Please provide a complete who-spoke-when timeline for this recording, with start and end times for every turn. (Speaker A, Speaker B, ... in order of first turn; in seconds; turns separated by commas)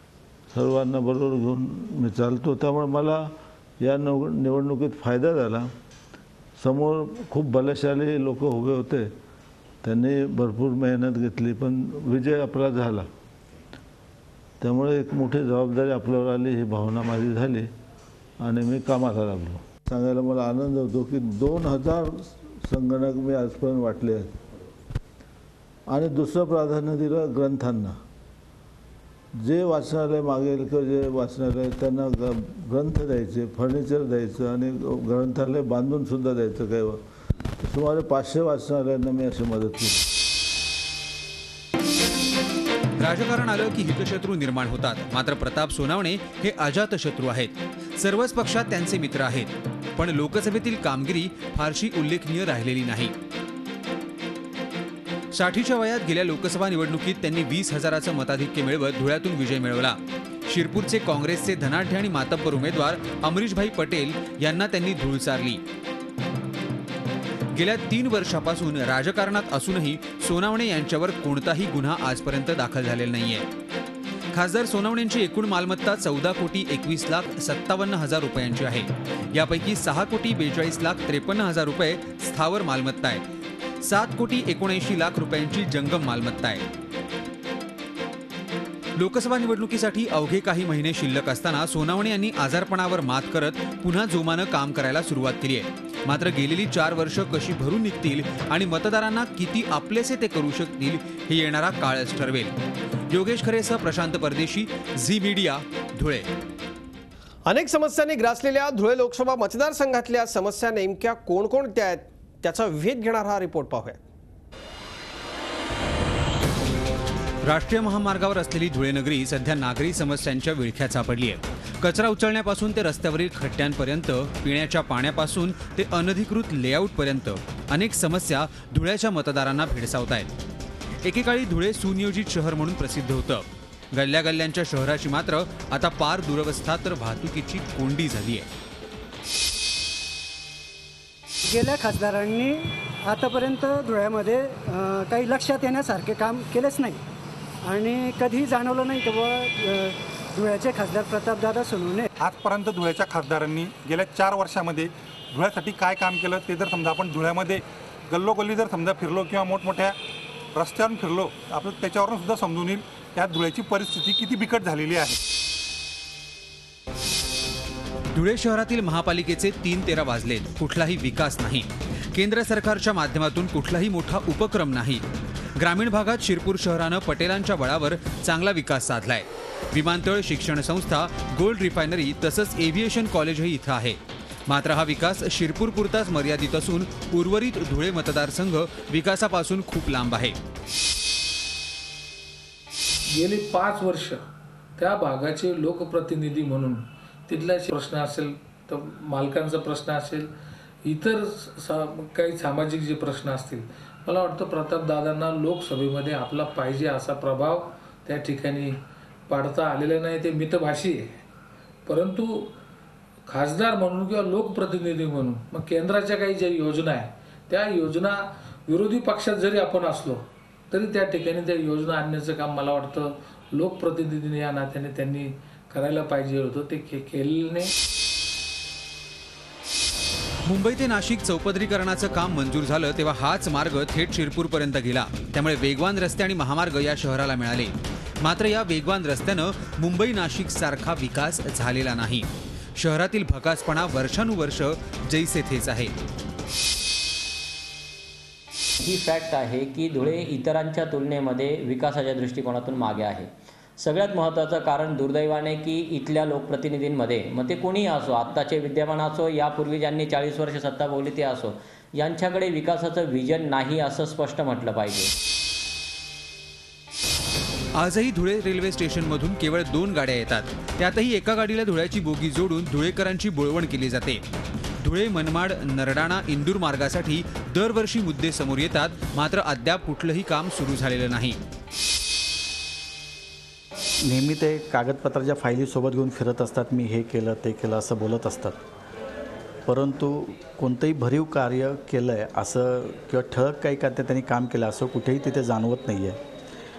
Speaker A: 0.5-5.7, Speaker A: 6.6-9.1, Speaker A: 9.8-13.1, Speaker A: 14.6-17.7, Speaker A: 18.4-24.3, Speaker A: 25.9-28.0, Speaker A: 29.4-37.0, Speaker A: 37.6-40.0, Speaker B: 43.0-53.1, Speaker B: 55.3-65.6, Speaker B: 67.6-73.5, Speaker B: 74.3-83.2, Speaker B: 83.8-86.7, Speaker B: 89.0-102.5, Speaker B: 103.1-106.3, Speaker C: 107.5-114.0, Speaker B: 117.5-130.3, Speaker B: 131.0-138.5, Speaker D: 141.5-142.6, Speaker D: 143.1-147.0, Speaker D: 147.7-152.1, Speaker E: 152.2-159.9, Speaker E: 160.6-165.2, Speaker B: 168.1-175.0, Speaker B: 175.6-190.4, Speaker F: 193.1-194.2, Speaker F: 194.8-200.3, Speaker F: 200.8-211.2, Speaker F: 211.9-212.5, Speaker F: 213.3-227.7, Speaker B: 230.4-245.9, Speaker G: 248.8-265.1, Speaker B: 267.8-274.2, Speaker B: 274.8-281.4, Speaker H: 284.1-288.6, Speaker H: 289.7-296.2